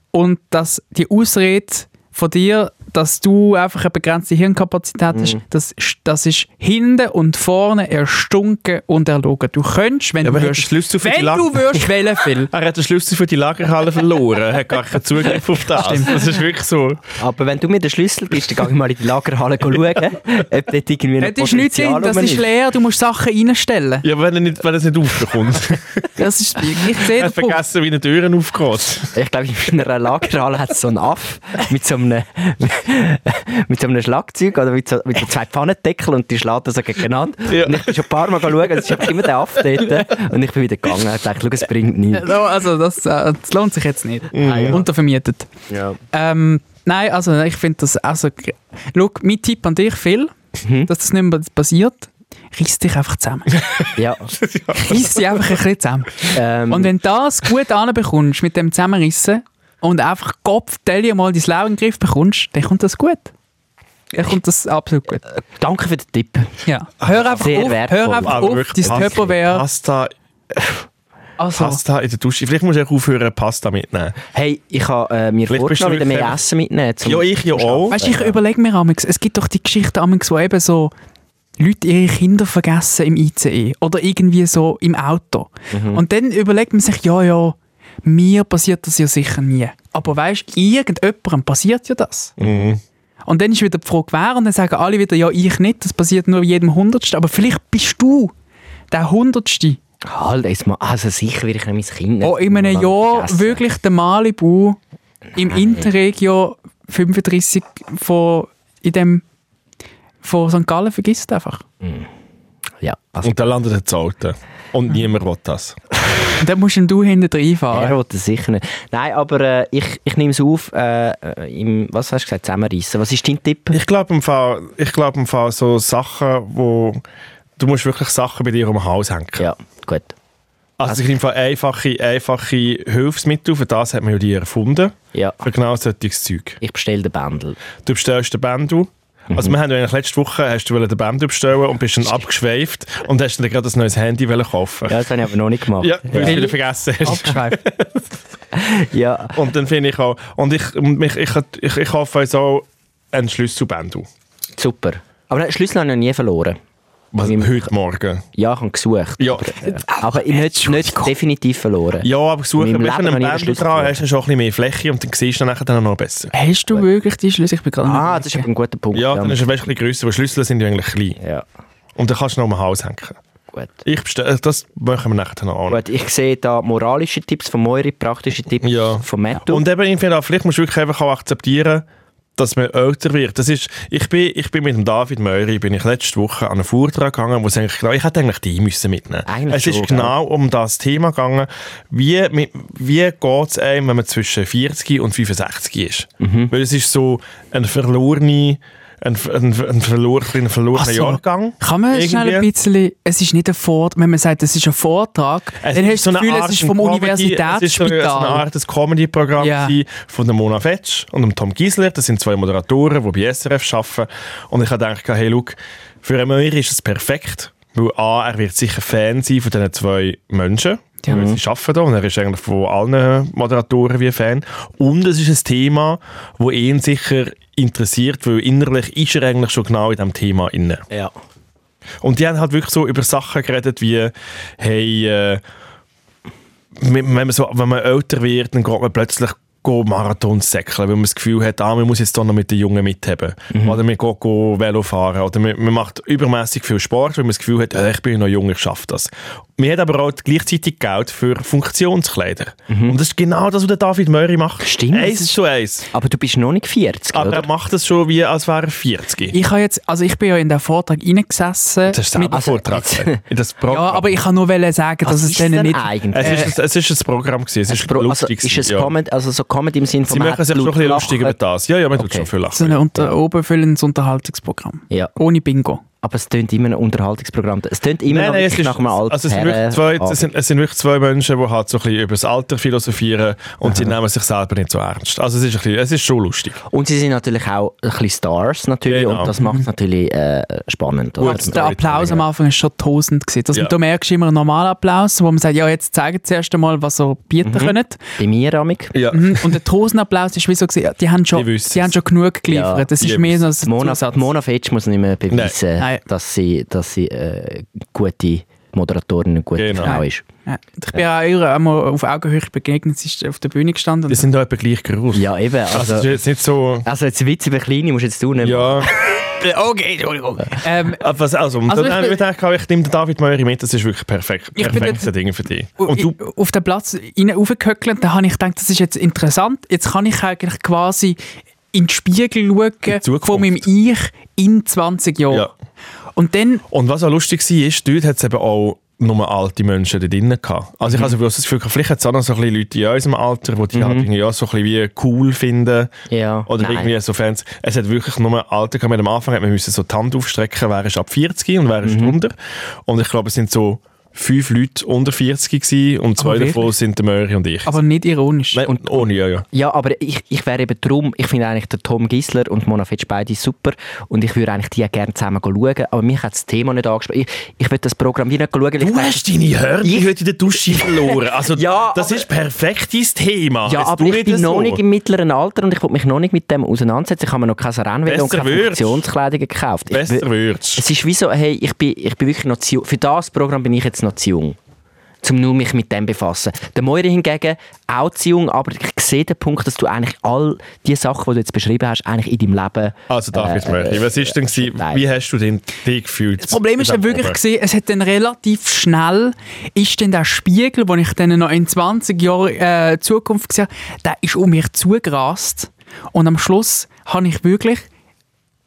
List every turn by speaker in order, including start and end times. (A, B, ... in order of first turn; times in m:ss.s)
0:00.1-0:12.5 A
0:05.1-0:05.4 B
0:10.2-0:11.9 C
0:12.5-0:17.0 C
0:15.7-0:16.3 A
0:17.2-0:22.5 B
0:21.2-0:24.1 A
0:24.0-0:26.1 C
0:26.2-0:27.6 A
0:26.9-0:29.2 C
0:29.1-0:42.3 B
0:37.5-0:38.1 C
0:42.1-0:45.5 A
0:44.3-0:44.8 C
0:44.4-0:44.8 B
0:45.7-0:46.0 B
0:46.1-0:50.3 A
0:50.6-0:50.9 B
0:50.9-0:53.5 A
0:54.0-0:54.3 B
0:54.4-0:55.3 C
0:54.8-1:03.3 A
0:56.3-0:56.9 B
1:04.1-1:05.2 A
1:05.3-1:06.6 B
1:06.7-1:09.6 A
1:07.0-1:10.1 C
1:07.3-1:09.3 B
1:11.4-1:11.8 A
1:11.5-1:14.2 C
1:14.3-1:18.4 B
1:15.5-1:16.4 C
1:17.0-1:18.0 C
1:17.9-1:20.9 A
1:21.6-1:32.4 A
1:25.7-1:26.0 B
1:32.4-1:32.8 C
1:32.4-1:32.7 B
1:33.3-1:38.3 A
1:38.9-1:39.8 A
1:40.0-1:43.6 B
1:42.2-1:44.8 A
1:45.4-1:49.2 A
1:45.5-1:45.9 B
1:50.2-1:51.6 A
1:51.8-1:52.1 B
1:52.8-1:53.5 B
1:53.2-1:55.8 C
1:56.4-1:58.0 A
1:57.7-2:03.8 B
2:03.7-2:07.0 C
2:07.6-2:09.5 C
2:09.4-2:10.2 B
2:10.8-2:16.6 C
2:15.1-2:15.4 B
2:16.6-2:17.6 B
2:17.8-2:25.0 C
2:19.3-2:19.6 B
2:24.9-2:26.5 B
2:25.8-2:28.0 C
2:26.2-2:27.6 A
2:28.5-2:29.4 B
2:29.3-2:34.1 C
2:34.6-2:36.6 B
2:37.1-2:38.2 C
2:37.2-2:37.6 B
2:38.4-2:44.0 B
2:39.2-2:39.5 C
2:39.7-2:41.1 A
2:42.0-2:46.3 C
2:46.3-2:48.5 A
2:47.8-2:49.4 B
2:48.9-2:51.2 C
2:51.2-2:51.5 B
2:52.0-2:53.2 C
2:53.8-2:55.8 C
2:55.7-2:59.6 B
2:58.6-3:01.8 C
3:02.4-3:22.5 C
3:09.3-3:10.1 B
3:16.2-3:16.5 B
3:20.8-3:28.4 A
3:25.6-3:50.9 C
3:29.4-3:29.8 A
3:41.1-3:41.4 B
3:50.9-3:51.2 B
3:52.0-3:55.4 C
3:56.8-4:15.9 C
4:03.5-4:03.8 B
4:12.7-4:13.0 B
4:14.6-4:15.3 B
4:15.9-4:17.5 B
4:17.1-4:19.4 C
4:19.3-4:22.4 A
4:21.9-4:24.1 C
4:22.3-4:23.2 B
4:23.7-4:26.5 A
4:25.0-4:26.5 B
4:26.1-4:28.9 C
4:27.7-4:31.4 B
4:30.1-4:32.8 C
4:32.0-4:32.3 B
4:32.5-4:35.8 A
4:36.0-4:40.3 B
4:38.1-4:46.6 C
4:43.6-4:44.0 B
4:46.7-4:52.1 B
4:48.9-4:49.3 C
4:51.2-4:52.2 C
4:51.2-4:58.0 A
4:57.4-4:59.0 B
4:58.9-4:59.5 C
4:59.1-5:04.3 A
5:01.3-5:02.0 C
5:02.5-5:02.9 B
5:03.0-5:03.4 C
5:03.6-5:10.3 B
5:05.3-5:05.6 C
5:09.6-5:10.0 C
5:09.8-5:14.3 A
5:14.1-5:16.9 C
5:15.1-5:16.2 B
5:16.8-5:18.9 B
5:18.4-5:18.9 C
5:19.1-5:21.0 A
5:21.0-5:26.2 C
5:21.7-5:22.2 A
5:24.6-5:25.1 A
5:25.8-5:31.2 A
5:31.7-5:35.5 A
5:32.9-5:33.6 C
5:36.2-5:36.6 A
5:36.7-5:45.9 C
5:43.7-5:44.1 B
5:46.1-5:46.9 B
5:46.5-5:52.4 C
5:51.8-5:52.2 B
5:52.9-5:57.8 C
5:56.2-5:56.7 A
5:57.7-5:58.6 A
5:58.5-5:59.5 C
5:58.7-6:09.3 B
6:08.8-6:14.8 C
6:09.8-6:12.3 B
6:13.7-6:24.6 B
6:18.1-6:19.0 C
6:19.9-6:20.8 C
6:25.2-6:35.0 B
6:33.1-6:37.4 C
6:36.4-6:47.8 A